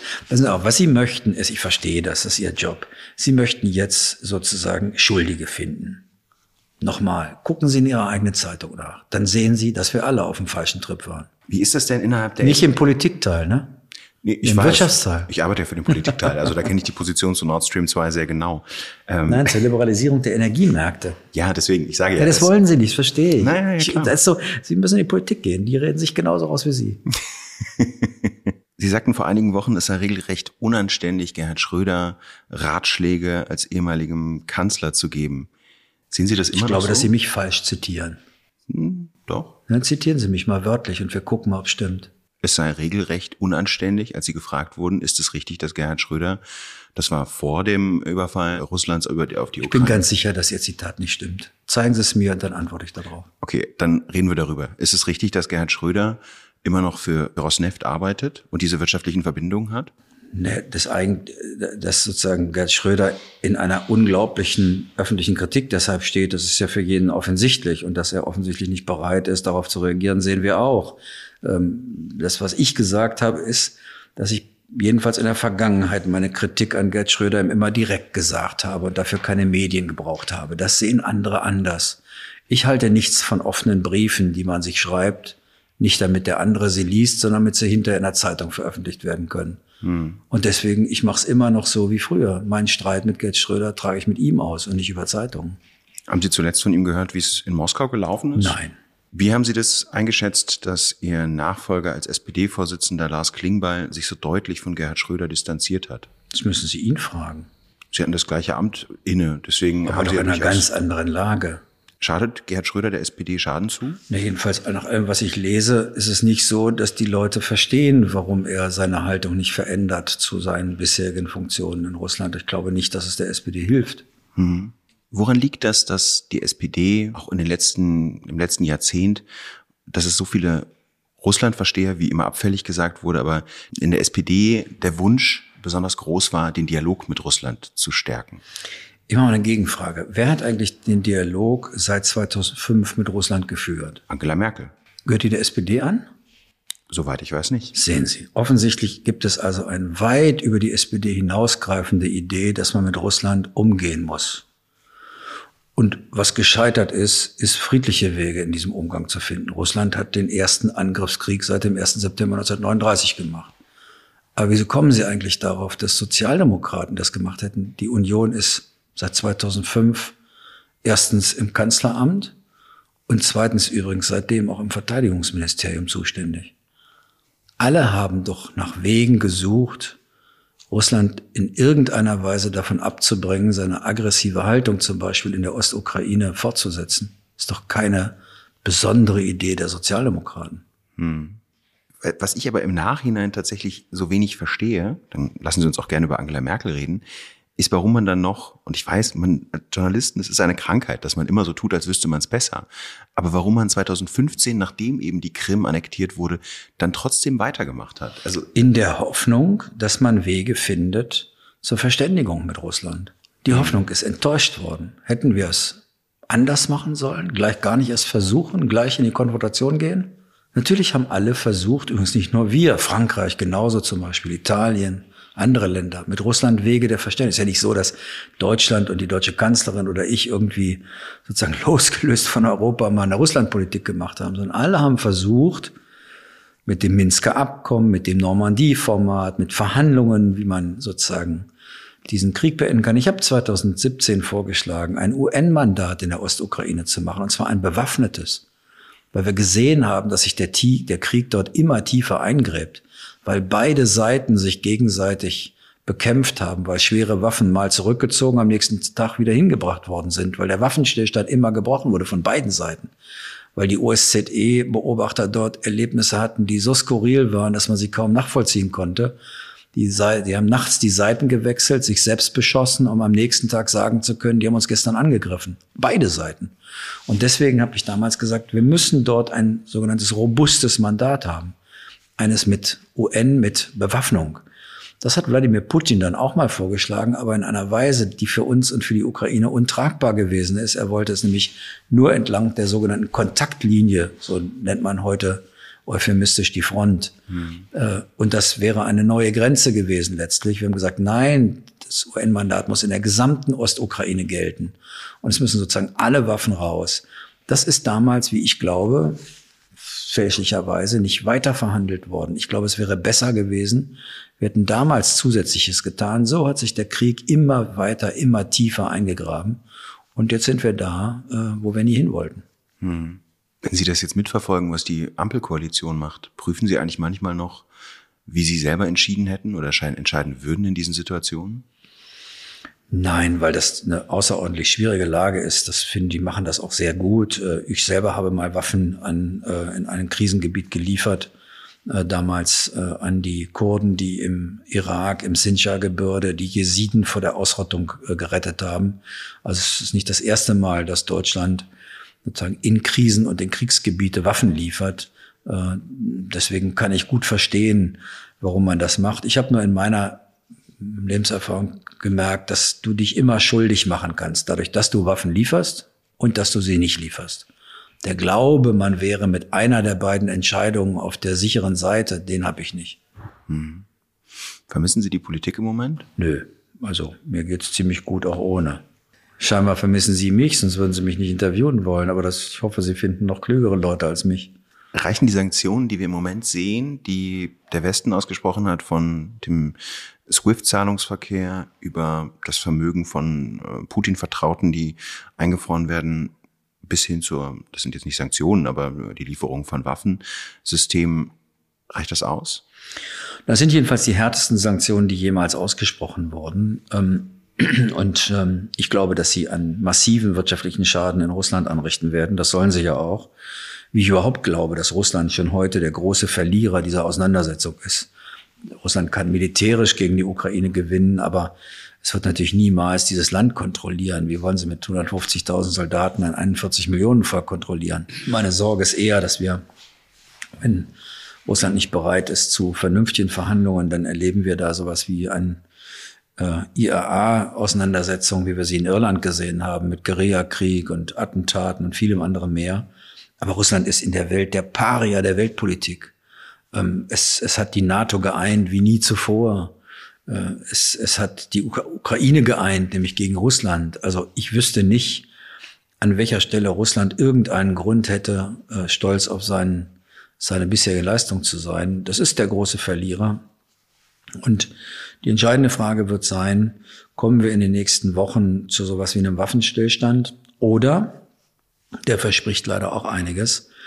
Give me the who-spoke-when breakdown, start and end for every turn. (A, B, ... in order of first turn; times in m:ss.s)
0:00.3-0:06.0 A
0:06.8-0:11.3 A
0:11.5-0:12.6 B
0:12.4-0:13.7 A
0:14.2-0:19.5 B
0:14.4-0:15.3 A
0:19.3-0:21.2 A
0:21.3-0:22.5 B
0:22.2-0:27.0 A
0:23.4-0:24.1 B
0:27.6-0:35.5 B
0:36.1-0:37.1 B
0:36.5-0:38.2 A
0:38.7-0:39.6 B
0:39.7-0:42.1 A
0:42.4-0:46.4 B
0:46.9-0:50.0 B
0:49.6-0:53.3 A
0:53.4-0:59.9 B
1:00.3-1:29.6 A
1:29.8-1:30.2 B
1:30.3-1:35.6 A
1:36.1-1:38.6 B
1:38.4-1:38.7 A
1:39.1-1:46.1 B
1:46.3-1:47.5 A
1:47.9-1:50.7 B
1:49.9-1:51.6 A
1:52.0-1:54.0 B
1:54.1-2:04.0 A
2:04.4-2:09.2 B
2:09.9-2:10.7 B
2:11.2-2:18.4 B
2:19.1-2:24.0 A
2:24.1-2:24.7 B
2:25.0-2:26.1 A
2:26.9-2:27.8 B
2:27.7-2:34.4 A
2:35.8-2:43.5 A
2:44.4-2:50.2 A
2:50.8-2:52.3 A
2:53.1-2:56.5 A
2:57.6-3:00.0 A
3:00.7-3:10.6 A
3:11.0-3:11.4 B
3:12.0-3:17.0 B
3:17.6-3:28.4 B
3:28.4-3:55.7 A
3:33.5-3:33.8 B
3:56.6-4:01.5 A
4:02.0-4:08.4 A
4:09.1-4:22.9 A
4:23.6-4:29.2 A
4:29.7-4:36.5 A
4:37.1-4:41.6 A
4:42.2-4:44.4 A
4:45.0-4:57.2 A
4:57.3-4:57.6 B
4:57.7-5:09.2 A
5:09.8-5:19.6 A
5:20.1-5:22.4 A
5:22.8-5:27.7 B
5:28.2-5:31.6 B
5:32.9-5:41.3 A
5:41.9-5:51.7 A
5:52.2-6:00.2 A
6:00.8-6:07.5 A
6:08.0-6:13.0 A
6:13.5-6:13.8 B
6:14.7-6:16.0 B
6:16.2-6:18.8 A
6:19.4-6:24.5 A
6:24.9-6:36.3 B
6:36.8-6:41.3 B
6:41.9-6:42.6 B
6:43.5-6:53.3 A
6:53.9-6:58.1 A
6:58.7-7:09.6 A
7:10.6-7:10.9 A
7:11.4-7:15.6 A
7:16.4-7:26.1 A
7:26.7-7:29.8 A
7:30.3-7:35.3 A
7:36.0-7:43.4 A
7:44.4-7:51.2 A
7:52.0-7:53.7 A